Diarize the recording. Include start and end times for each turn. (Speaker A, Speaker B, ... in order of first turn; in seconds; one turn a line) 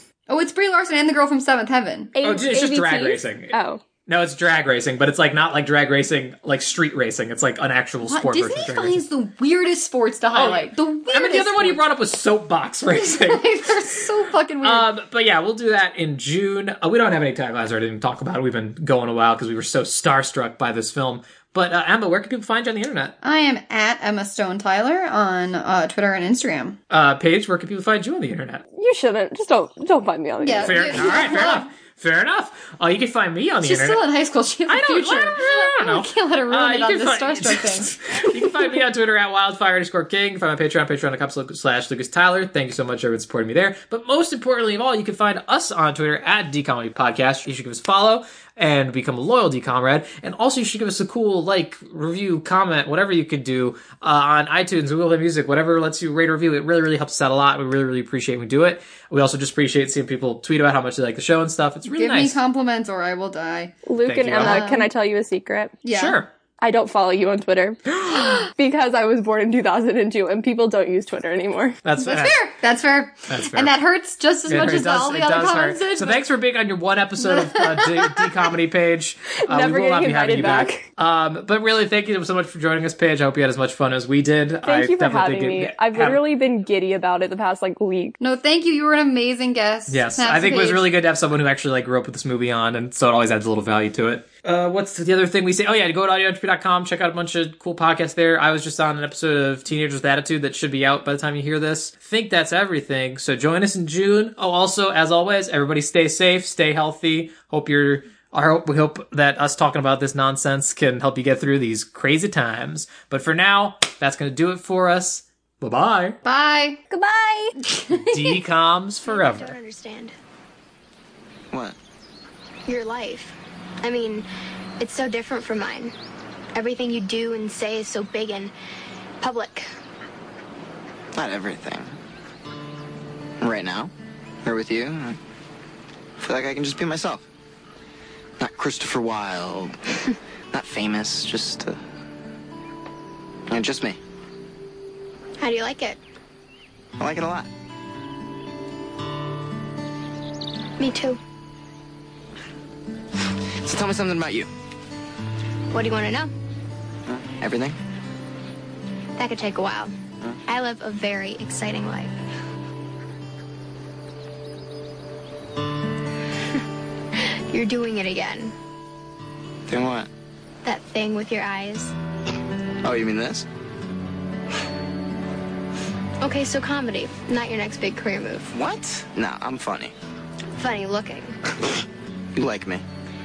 Speaker A: 0.3-2.1
Speaker B: 2.1-3.8
Speaker C: 2.2-3.5
Speaker C: 4.1-9.0
Speaker A: 8.0-11.8
Speaker C: 10.3-14.0
Speaker A: 12.9-14.9
Speaker C: 14.6-23.1
Speaker A: 23.2-26.8
Speaker C: 26.9-28.6
Speaker B: 28.7-31.2
Speaker A: 30.4-31.7
Speaker C: 30.6-34.0
Speaker A: 33.6-37.9
Speaker C: 34.7-62.4
Speaker A: 61.9-63.7
Speaker B: 63.9-65.8
Speaker C: 64.0-64.7
Speaker A: 64.3-64.9
Speaker A: 65.8-66.2
Speaker C: 65.9-66.3
Speaker B: 66.6-71.8
Speaker C: 67.9-68.3
Speaker C: 71.8-72.3
Speaker A: 72.0-76.2
Speaker C: 73.3-73.7
Speaker C: 74.5-86.2
Speaker A: 77.2-78.3
Speaker B: 79.5-80.8
Speaker B: 84.6-88.2
Speaker A: 88.2-90.8
Speaker C: 89.9-116.2
Speaker A: 116.2-116.8
Speaker B: 116.9-117.5
Speaker A: 117.6-118.4
Speaker C: 117.9-119.5
Speaker D: 119.1-120.1
Speaker E: 121.5-121.8
Speaker D: 122.7-124.2
Speaker D: 124.8-125.9
Speaker D: 126.5-128.5
Speaker D: 129.2-129.7
Speaker E: 131.2-131.9
Speaker E: 133.4-133.9
Speaker E: 134.4-135.2
Speaker E: 136.2-137.2
Speaker E: 138.4-139.8
Speaker E: 140.5-141.8
Speaker E: 143.5-144.0
Speaker D: 145.4-146.0
Speaker E: 147.0-147.5
Speaker D: 150.8-151.2
Speaker E: 153.6-154.5
Speaker D: 155.7-156.3
Speaker E: 157.2-157.8
Speaker D: 159.2-159.9
Speaker D: 160.5-162.1
Speaker D: 167.2-168.5
Speaker E: 169.7-170.1
Speaker D: 170.6-171.9
Speaker E: 172.8-173.4
Speaker D: 176.2-178.5
Speaker E: 178.5-179.9
Speaker D: 180.6-181.3
Speaker E: 182.3-182.8